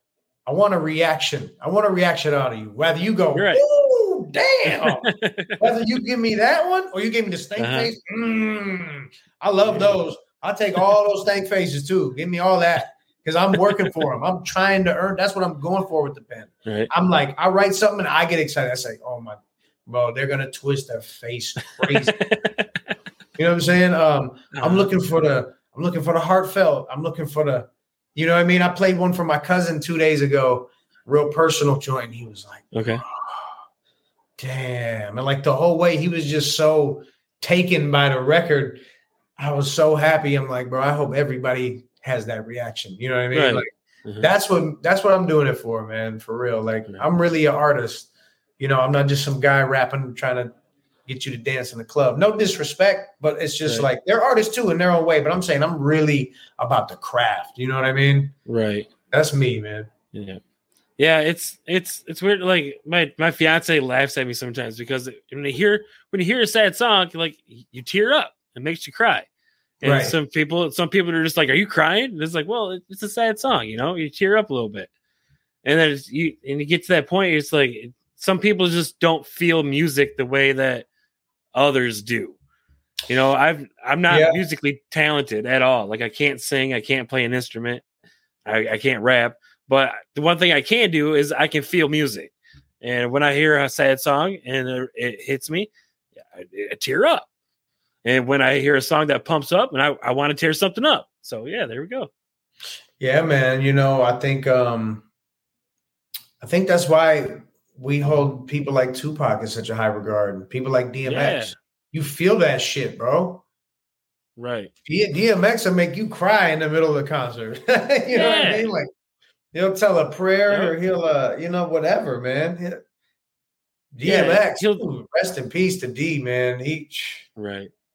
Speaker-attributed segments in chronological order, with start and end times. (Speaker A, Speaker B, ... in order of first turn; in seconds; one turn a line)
Speaker A: 0.5-22.2
Speaker B: 3.3-3.6
Speaker B: 4.7-5.6
Speaker B: 7.6-7.9
Speaker B: 9.6-9.9
Speaker B: 16.6-16.9
Speaker B: 21.8-22.6
Speaker A: 23.4-33.5
Speaker B: 24.5-24.9
Speaker B: 32.7-33.0
Speaker A: 34.4-38.8
Speaker A: 39.4-50.5
Speaker B: 43.3-44.3
Speaker A: 51.0-58.3
Speaker B: 58.5-58.9
Speaker A: 59.1-59.9
Speaker B: 60.1-60.4
Speaker B: 61.0-69.3
Speaker B: 69.8-74.9
Speaker A: 69.8-70.2
Speaker B: 75.6-80.9
Speaker B: 81.5-82.4
Speaker B: 83.1-87.8
Speaker A: 84.1-84.4
Speaker B: 88.4-95.7
Speaker B: 96.2-97.3
Speaker B: 98.0-102.1
Speaker A: 103.0-105.1
Speaker A: 106.4-113.4
Speaker B: 111.0-111.5
Speaker B: 114.4-114.7
Speaker A: 114.8-118.9
Speaker B: 118.1-118.7
Speaker A: 119.5-122.8
Speaker B: 120.5-120.7
Speaker A: 123.9-127.3
Speaker B: 124.0-124.8
Speaker B: 127.4-127.7